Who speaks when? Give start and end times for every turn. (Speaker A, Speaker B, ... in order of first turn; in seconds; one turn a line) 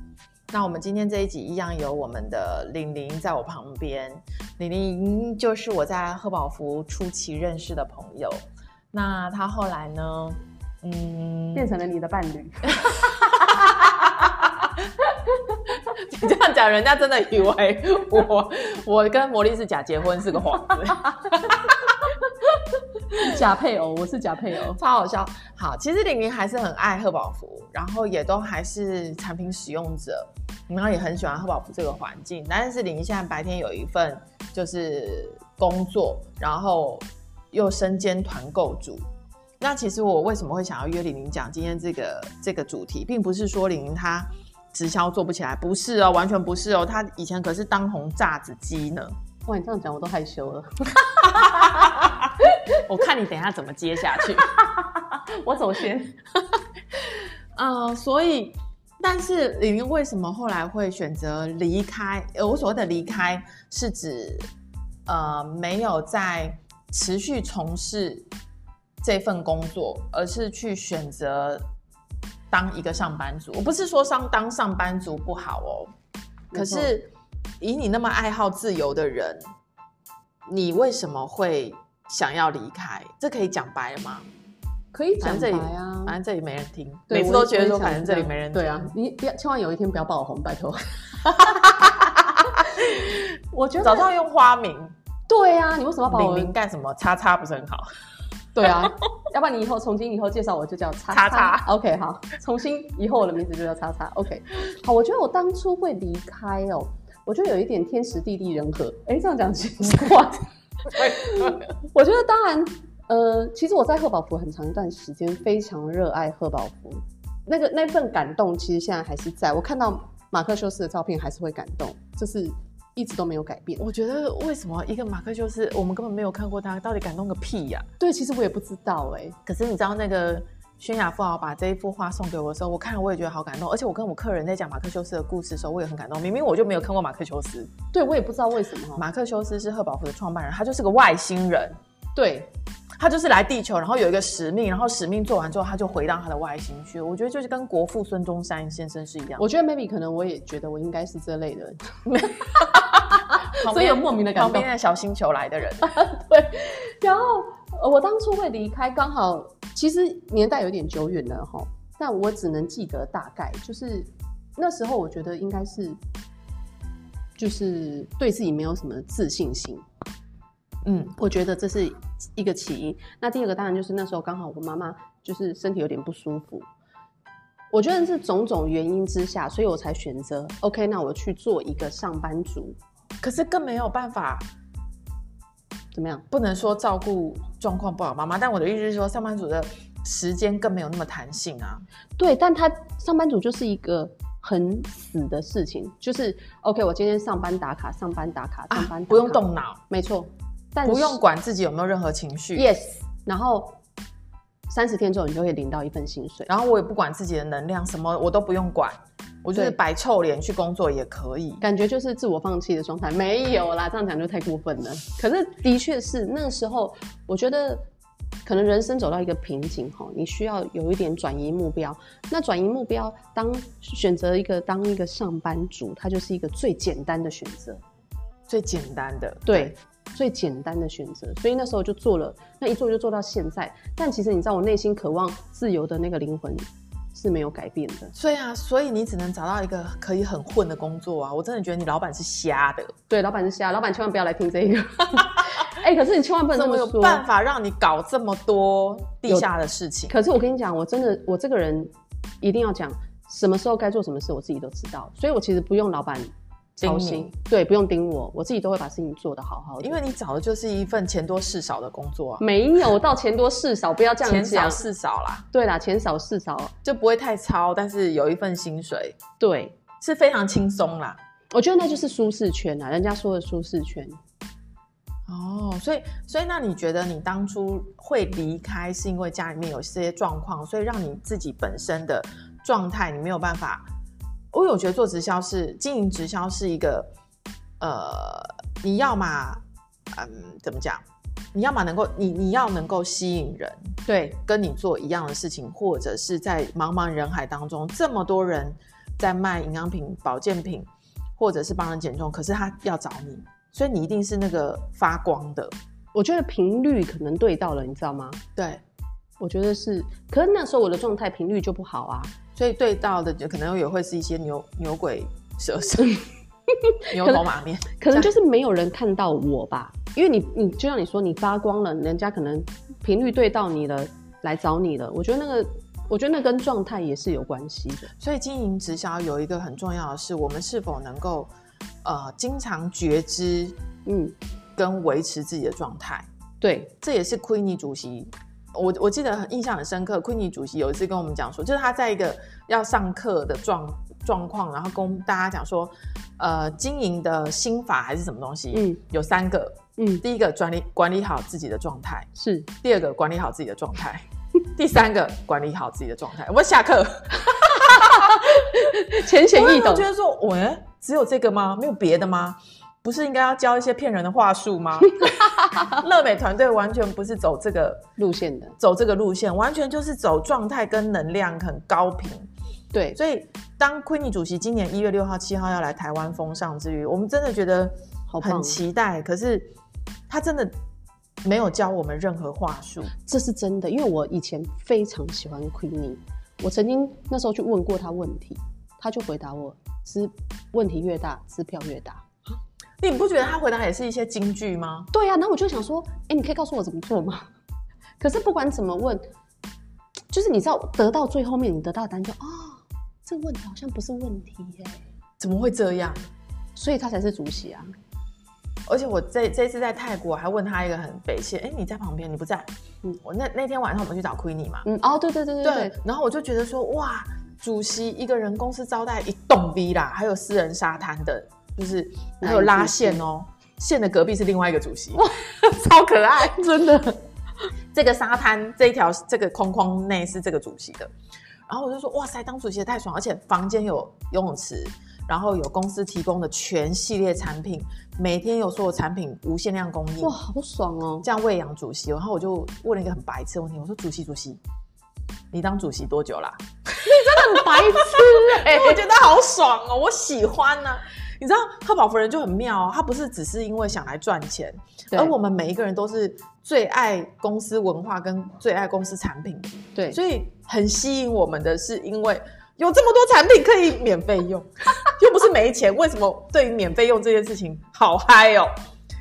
Speaker A: 0.5-8.4
Speaker A: 8.9-11.7
Speaker B: 11.5-13.0
Speaker A: 12.8-14.9
Speaker A: 15.9-22.1
Speaker B: 23.1-24.8
Speaker A: 24.7-39.0
Speaker A: 39.6-49.2
Speaker B: 49.5-51.8
Speaker A: 51.2-54.5
Speaker B: 54.5-56.2
Speaker A: 57.5-64.5
Speaker A: 65.1-68.3
Speaker A: 69.0-71.6
Speaker A: 72.5-75.9
Speaker B: 76.5-76.9
Speaker A: 76.5-79.5
Speaker A: 80.5-84.3
Speaker B: 84.9-86.2
Speaker A: 85.2-88.9
Speaker B: 87.1-94.1
Speaker A: 91.4-92.8
Speaker A: 93.8-94.9
Speaker B: 95.3-96.5
Speaker A: 96.1-97.9
Speaker B: 98.5-123.8
Speaker A: 101.1-101.7
Speaker A: 110.9-111.6
Speaker A: 123.8-127.9
Speaker B: 128.0-129.4
Speaker A: 129.4-137.7
Speaker B: 137.9-139.0
Speaker A: 138.9-141.8
Speaker B: 142.2-142.5
Speaker A: 143.0-149.4
Speaker B: 149.4-154.7
Speaker A: 152.1-155.9
Speaker B: 155.8-166.0
Speaker B: 167.4-169.8
Speaker A: 170.8-171.2
Speaker B: 171.2-176.7
Speaker B: 177.7-182.8
Speaker A: 183.2-184.5
Speaker B: 185.9-186.2
Speaker A: 186.3-191.8
Speaker B: 192.2-201.2
Speaker A: 198.7-199.8
Speaker A: 200.8-202.7
Speaker B: 202.5-203.8
Speaker B: 204.7-206.5
Speaker A: 206.5-211.6
Speaker B: 211.6-217.9
Speaker B: 218.4-227.8
Speaker A: 228.5-229.7
Speaker B: 229.4-238.1
Speaker A: 238.1-242.9
Speaker B: 243.1-247.2
Speaker A: 246.5-250.2
Speaker B: 250.1-260.0
Speaker A: 256.8-257.3
Speaker A: 259.8-262.4
Speaker B: 262.4-264.8
Speaker A: 264.2-265.4
Speaker B: 265.5-266.7
Speaker A: 266.8-269.2
Speaker B: 269.4-269.8
Speaker A: 270.0-271.2
Speaker B: 271.5-274.2
Speaker A: 275.3-283.9
Speaker A: 284.5-287.1
Speaker A: 287.8-305.7
Speaker B: 306.1-308.4
Speaker A: 308.6-308.8
Speaker B: 309.4-312.3
Speaker A: 312.6-316.2
Speaker B: 316.7-328.1
Speaker A: 317.1-318.3
Speaker A: 328.2-331.5
Speaker A: 332.0-333.8
Speaker B: 334.1-334.3
Speaker A: 334.8-336.3
Speaker B: 336.6-336.9
Speaker A: 337.0-352.3
Speaker B: 348.7-349.0
Speaker B: 350.0-350.2
Speaker B: 352.3-352.7
Speaker A: 352.8-368.0
Speaker B: 357.8-360.1
Speaker B: 365.2-366.0
Speaker B: 368.2-368.8
Speaker A: 368.8-372.5
Speaker B: 372.9-373.2
Speaker A: 373.1-379.7
Speaker B: 378.3-378.8
Speaker A: 380.3-380.7
Speaker A: 381.4-383.1
Speaker B: 383.2-392.3
Speaker A: 393.0-395.1
Speaker B: 395.1-397.5
Speaker B: 398.2-399.2
Speaker B: 400.3-405.0
Speaker A: 405.4-406.3
Speaker B: 406.8-407.9
Speaker A: 408.9-412.7
Speaker A: 413.2-414.9
Speaker B: 414.8-416.0
Speaker A: 415.6-427.2
Speaker B: 422.4-423.2
Speaker A: 427.9-431.1
Speaker A: 431.7-440.4
Speaker B: 440.2-441.2
Speaker A: 441.2-444.6
Speaker A: 445.5-468.7
Speaker B: 447.0-449.0